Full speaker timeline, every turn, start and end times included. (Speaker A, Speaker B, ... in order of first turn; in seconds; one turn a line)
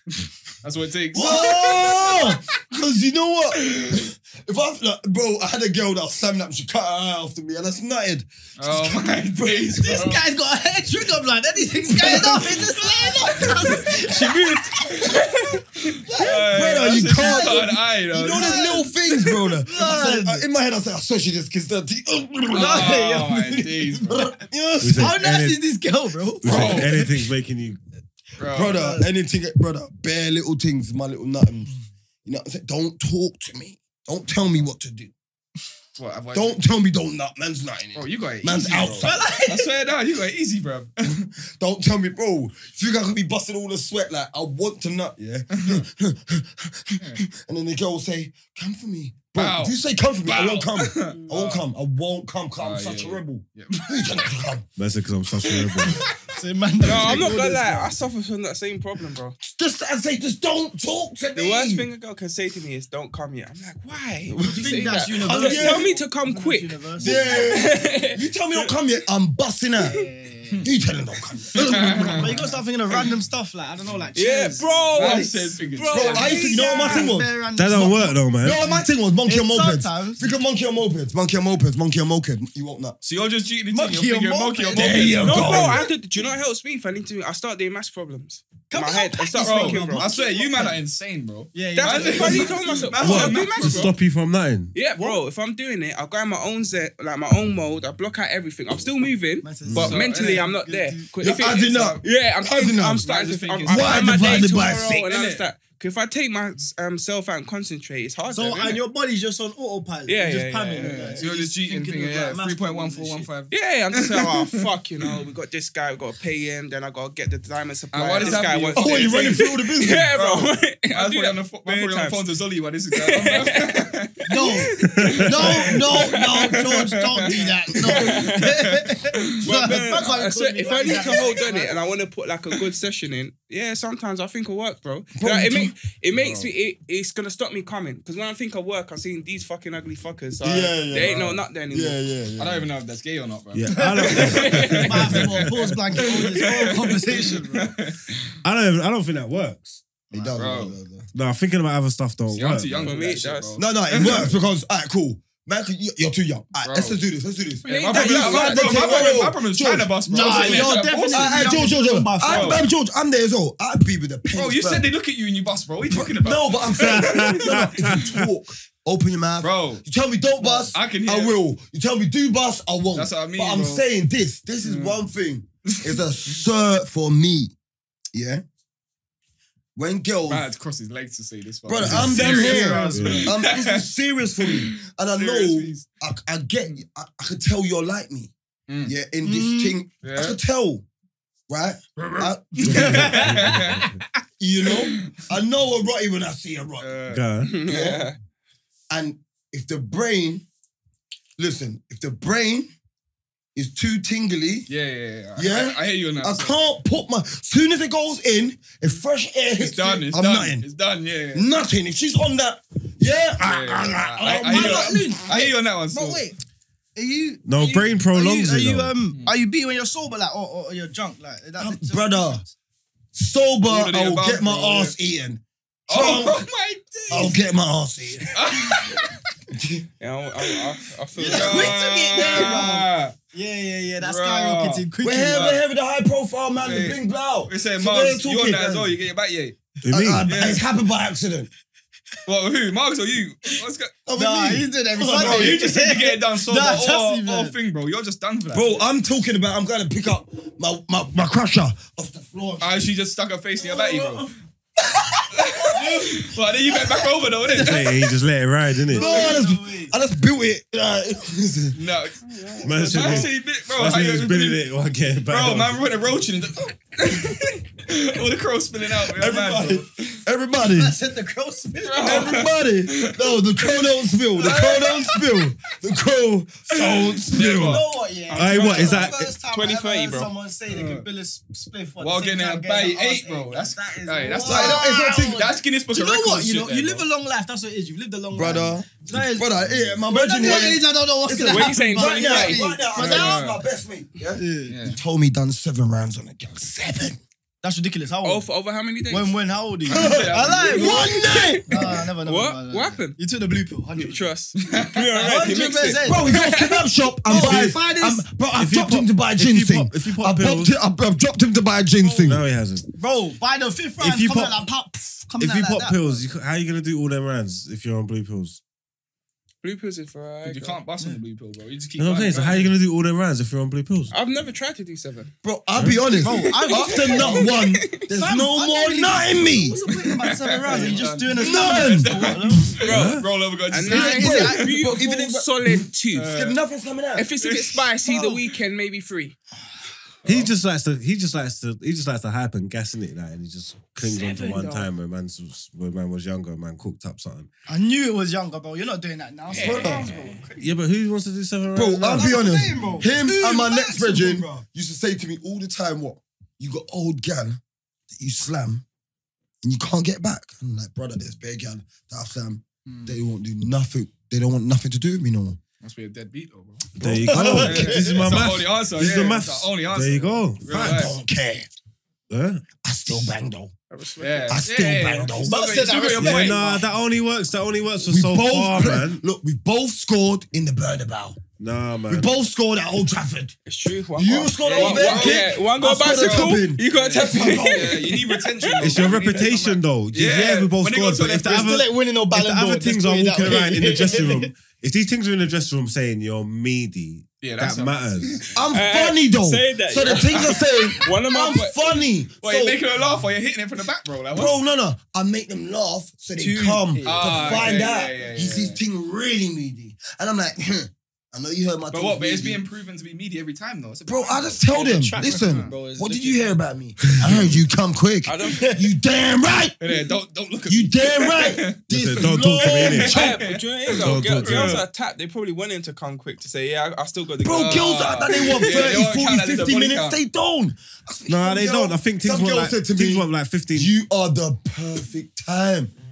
Speaker A: 0.2-2.4
Speaker B: 1.1-10.1
Speaker A: 8.6-10.3
Speaker C: 9.8-15.1
Speaker B: 11.9-12.8
Speaker B: 13.4-13.8
Speaker D: 14.1-15.6
Speaker A: 15.9-18.8
Speaker C: 16.1-16.5
Speaker B: 16.2-23.0
Speaker C: 17.1-17.7
Speaker C: 18.3-18.9
Speaker C: 19.6-20.4
Speaker A: 22.5-24.3
Speaker C: 22.6-23.8
Speaker B: 23.8-25.2
Speaker E: 24.8-25.6
Speaker C: 24.9-27.1
Speaker E: 26.4-27.8
Speaker A: 26.5-27.0
Speaker A: 28.4-28.9
Speaker B: 28.5-31.7
Speaker C: 28.6-29.1
Speaker B: 32.2-35.1
Speaker A: 36.0-36.6
Speaker B: 36.3-39.2
Speaker A: 38.0-41.2
Speaker C: 39.0-39.7
Speaker B: 41.1-54.7
Speaker A: 45.5-45.8
Speaker A: 49.4-51.6
Speaker A: 52.6-54.2
Speaker E: 54.8-56.0
Speaker C: 56.3-57.9
Speaker D: 56.8-59.4
Speaker B: 59.4-61.9
Speaker D: 61.4-68.7
Speaker B: 64.5-65.9
Speaker C: 64.5-67.8
Speaker B: 67.0-70.0
Speaker C: 69.8-70.7
Speaker B: 70.6-72.3
Speaker A: 71.6-73.1
Speaker C: 71.8-80.3
Speaker D: 74.2-77.1
Speaker A: 74.9-76.5
Speaker B: 75.9-77.3
Speaker E: 77.6-78.6
Speaker B: 78.4-83.0
Speaker A: 83.0-85.8
Speaker C: 83.7-85.9
Speaker B: 84.7-85.9
Speaker D: 85.2-90.1
Speaker C: 88.7-90.8
Speaker A: 89.3-93.9
Speaker C: 91.5-93.3
Speaker D: 91.8-93.9
Speaker B: 93.0-93.3
Speaker E: 93.4-94.8
Speaker D: 94.8-108.8
Speaker C: 99.4-101.1
Speaker B: 99.7-99.9
Speaker A: 99.7-100.5
Speaker B: 101.2-103.1
Speaker A: 103.0-105.4
Speaker B: 103.7-105.1
Speaker C: 108.3-113.3
Speaker D: 110.1-111.2
Speaker A: 110.8-114.7
Speaker D: 113.5-122.2
Speaker A: 117.9-119.5
Speaker B: 118.7-120.1
Speaker A: 120.1-124.5
Speaker D: 122.9-128.8
Speaker C: 124.3-131.9
Speaker E: 125.0-125.2
Speaker A: 125.4-126.0
Speaker B: 125.7-126.1
Speaker A: 127.2-127.4
Speaker A: 129.1-130.0
Speaker D: 129.4-142.0
Speaker B: 135.2-135.8
Speaker A: 136.2-136.5
Speaker B: 140.4-142.7
Speaker A: 141.0-141.3
Speaker A: 142.4-148.2
Speaker E: 143.5-145.5
Speaker C: 143.8-147.8
Speaker E: 148.4-149.8
Speaker C: 150.1-150.7
Speaker B: 150.1-151.1
Speaker A: 150.4-150.8
Speaker E: 151.1-153.1
Speaker A: 152.3-154.3
Speaker D: 152.8-153.6
Speaker B: 153.6-164.9
Speaker A: 156.6-157.0
Speaker A: 157.7-161.7
Speaker D: 157.7-159.2
Speaker C: 160.1-162.6
Speaker A: 162.2-162.6
Speaker A: 164.3-167.3
Speaker B: 165.9-177.5
Speaker E: 166.8-168.3
Speaker A: 169.4-169.8
Speaker A: 170.4-171.4
Speaker A: 172.9-173.9
Speaker A: 174.6-175.0
Speaker A: 175.7-176.4
Speaker B: 178.1-178.4
Speaker B: 179.8-180.5
Speaker A: 180.3-183.9
Speaker B: 181.7-188.3
Speaker E: 181.8-182.2
Speaker C: 181.9-183.3
Speaker E: 182.9-183.3
Speaker A: 184.4-185.8
Speaker A: 188.7-188.9
Speaker B: 188.8-190.9
Speaker C: 189.2-189.8
Speaker A: 190.0-190.4
Speaker B: 191.5-193.5
Speaker A: 192.1-194.0
Speaker E: 192.7-193.9
Speaker C: 192.9-193.5
Speaker B: 194.4-196.9
Speaker A: 194.6-195.3
Speaker A: 196.8-197.2
Speaker E: 197.1-197.5
Speaker D: 197.4-198.2
Speaker B: 197.7-198.1
Speaker B: 198.9-200.4
Speaker B: 201.4-202.7
Speaker B: 203.6-204.7
Speaker A: 204.7-206.6
Speaker B: 205.4-210.7
Speaker A: 209.6-211.5
Speaker B: 211.3-215.2
Speaker A: 213.4-216.3
Speaker C: 214.4-216.4
Speaker C: 217.0-222.5
Speaker E: 217.4-218.9
Speaker A: 219.1-219.4
Speaker B: 221.6-222.4
Speaker B: 223.1-226.5
Speaker A: 223.7-224.9
Speaker A: 225.9-227.4
Speaker B: 227.1-228.5
Speaker A: 228.3-229.1
Speaker B: 229.5-229.9
Speaker D: 230.0-231.8
Speaker C: 231.2-235.6
Speaker A: 231.2-233.2
Speaker A: 234.0-235.6
Speaker B: 235.0-239.0
Speaker A: 236.6-239.6
Speaker E: 239.8-240.3
Speaker B: 239.9-241.5
Speaker A: 240.2-240.6
Speaker A: 242.3-244.0
Speaker B: 244.1-245.7
Speaker C: 244.1-247.6
Speaker A: 245.2-248.8
Speaker B: 248.5-252.9
Speaker A: 252.6-254.3
Speaker B: 253.6-254.3
Speaker A: 255.3-258.0
Speaker C: 255.8-256.1
Speaker E: 257.5-259.2
Speaker C: 258.9-259.9
Speaker B: 258.9-261.8
Speaker A: 261.7-264.6
Speaker D: 262.2-263.3
Speaker E: 262.6-265.8
Speaker A: 265.3-270.2
Speaker B: 269.1-271.0
Speaker C: 270.6-272.3
Speaker A: 271.8-275.4
Speaker B: 272.0-277.8
Speaker A: 276.7-277.9
Speaker C: 277.5-289.5
Speaker D: 278.3-280.3
Speaker E: 278.3-279.3
Speaker A: 280.7-281.1
Speaker A: 282.0-287.1
Speaker B: 284.4-285.5
Speaker B: 288.3-297.2
Speaker C: 290.1-293.5
Speaker D: 291.4-292.7
Speaker A: 292.9-293.6
Speaker C: 294.4-294.8
Speaker A: 294.7-295.0
Speaker C: 297.6-298.5
Speaker D: 298.2-299.4
Speaker C: 299.1-304.3
Speaker A: 299.9-301.0
Speaker B: 299.9-301.9
Speaker D: 300.8-303.2
Speaker D: 304.0-306.9
Speaker A: 304.6-305.8
Speaker C: 305.1-306.5
Speaker B: 306.0-312.4
Speaker C: 307.2-308.2
Speaker E: 308.6-310.7
Speaker C: 312.0-312.3
Speaker E: 312.3-312.9
Speaker C: 312.9-316.2
Speaker E: 314.0-314.7
Speaker E: 315.4-318.6
Speaker D: 319.6-320.8
Speaker A: 320.4-322.7
Speaker E: 322.0-324.1
Speaker D: 324.1-325.3
Speaker B: 325.4-329.8
Speaker C: 326.2-327.6
Speaker D: 326.5-328.0
Speaker C: 328.1-332.8
Speaker A: 330.0-334.9
Speaker B: 330.8-332.5
Speaker D: 332.8-336.3
Speaker E: 332.9-333.3
Speaker C: 333.9-334.7
Speaker B: 333.9-337.3
Speaker A: 336.1-336.6
Speaker D: 337.2-339.4
Speaker A: 337.4-337.8
Speaker C: 338.1-338.4
Speaker A: 340.2-340.5
Speaker E: 340.2-347.5
Speaker D: 344.0-344.9
Speaker C: 347.7-350.7
Speaker A: 349.5-350.4
Speaker B: 349.6-350.1
Speaker E: 350.6-352.5
Speaker B: 351.8-357.6
Speaker C: 352.1-354.6
Speaker B: 358.1-358.8
Speaker B: 359.6-365.6
Speaker A: 362.9-363.2
Speaker A: 365.8-366.9
Speaker E: 367.0-371.0
Speaker B: 367.0-367.9
Speaker C: 367.0-368.4
Speaker A: 367.5-371.2
Speaker B: 370.7-371.7
Speaker E: 372.3-372.6
Speaker B: 372.8-373.7
Speaker D: 373.9-374.6
Speaker A: 374.2-376.8
Speaker B: 374.5-375.6
Speaker C: 375.4-376.9
Speaker E: 376.2-379.2
Speaker B: 378.1-381.4
Speaker E: 381.6-382.3
Speaker B: 382.1-383.6
Speaker D: 383.7-389.0
Speaker B: 384.2-388.1
Speaker A: 384.6-391.8
Speaker E: 388.8-398.5
Speaker C: 391.5-394.5
Speaker A: 397.4-398.5
Speaker B: 398.5-402.8
Speaker D: 398.7-401.8
Speaker A: 400.2-400.6
Speaker A: 402.4-404.6
Speaker B: 404.3-412.6
Speaker C: 406.4-407.8
Speaker A: 407.0-408.8
Speaker A: 411.9-414.7
Speaker B: 414.1-419.9
Speaker C: 414.7-416.6
Speaker A: 415.2-415.8
Speaker E: 417.2-417.6
Speaker D: 418.2-418.8
Speaker C: 418.5-418.8
Speaker A: 419.8-424.8
Speaker B: 420.7-423.4
Speaker E: 421.9-423.2
Speaker D: 422.9-429.0
Speaker E: 423.9-424.8
Speaker B: 427.4-435.9
Speaker A: 427.6-430.2
Speaker E: 431.3-433.9